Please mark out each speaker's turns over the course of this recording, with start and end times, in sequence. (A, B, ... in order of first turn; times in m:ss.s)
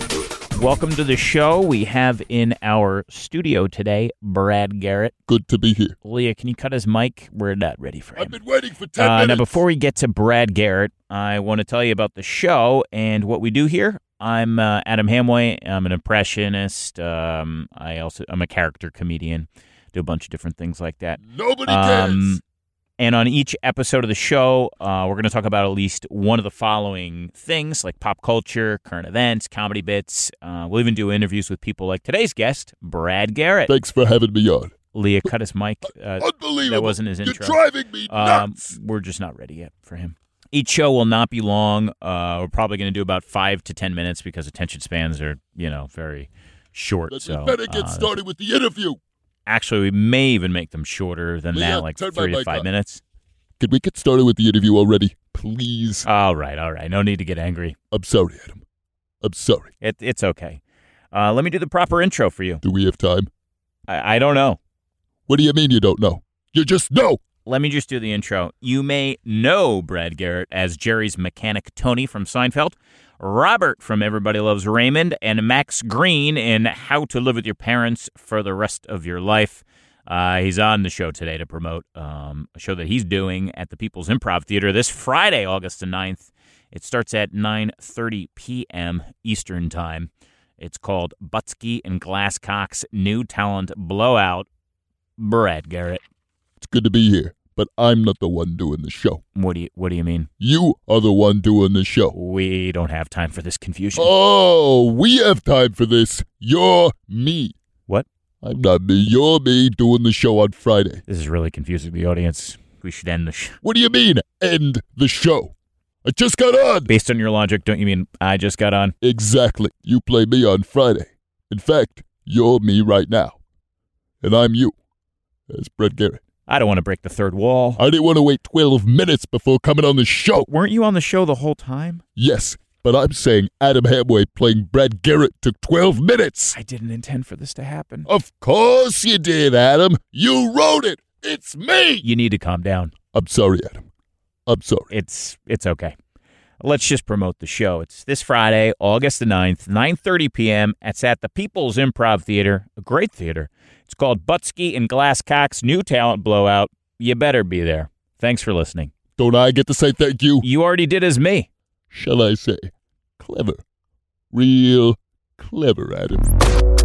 0:00.5-0:05.1 A
0:05.3-0:06.0 B
0:06.0-0:08.4 A
0:08.2-0:09.6 B
0:09.0-0:22.4 A
0:21.2-0:22.4 B
0:23.0-0:33.7 A
0:33.7-0:34.7 B
0:34.9-0:48.2 A
0:36.2-0:38.7 B
0:47.1-0:49.0 B
0:49.5-0:53.0 A
0:51.5-0:52.7 B
0:53.6-0:56.1 B
0:56.0-0:57.8 A
0:57.9-0:58.6 B
0:59.2-0:59.7 B
0:59.8-1:00.6 A
1:01.1-1:02.6 A
1:02.6-1:03.3 B
1:03.9-1:04.6 A
1:05.3-1:07.2 B
1:07.4-1:34.5 A
1:35.2-1:36.0 A
1:36.6-1:39.2 B
1:39.4-1:40.3 A
1:40.4-1:42.1 B
1:42.1-1:44.1 A
1:44.0-1:47.6 B
1:48.4-1:51.0 B
1:51.1-1:53.6 A
1:53.6-1:55.5 B
1:56.0-1:56.9 B
1:56.9-1:58.9 A
1:59.0-2:03.4 B
2:04.2-2:04.8 B
2:05.5-2:06.2 B
2:06.5-2:07.8 A
2:07.8-2:10.5 B
2:10.4-2:12.0 A
2:12.2-2:16.6 B
2:16.5-2:18.1 A
2:18.1-2:22.0 B
2:22.0-2:22.9 A
2:23.1-2:23.8 B
2:24.5-2:24.9 B
2:24.9-2:26.0 A
2:26.6-2:38.9 A
2:39.2-2:40.5 B
2:40.4-2:41.5 A
2:41.9-2:43.6 B
2:44.3-2:46.2 B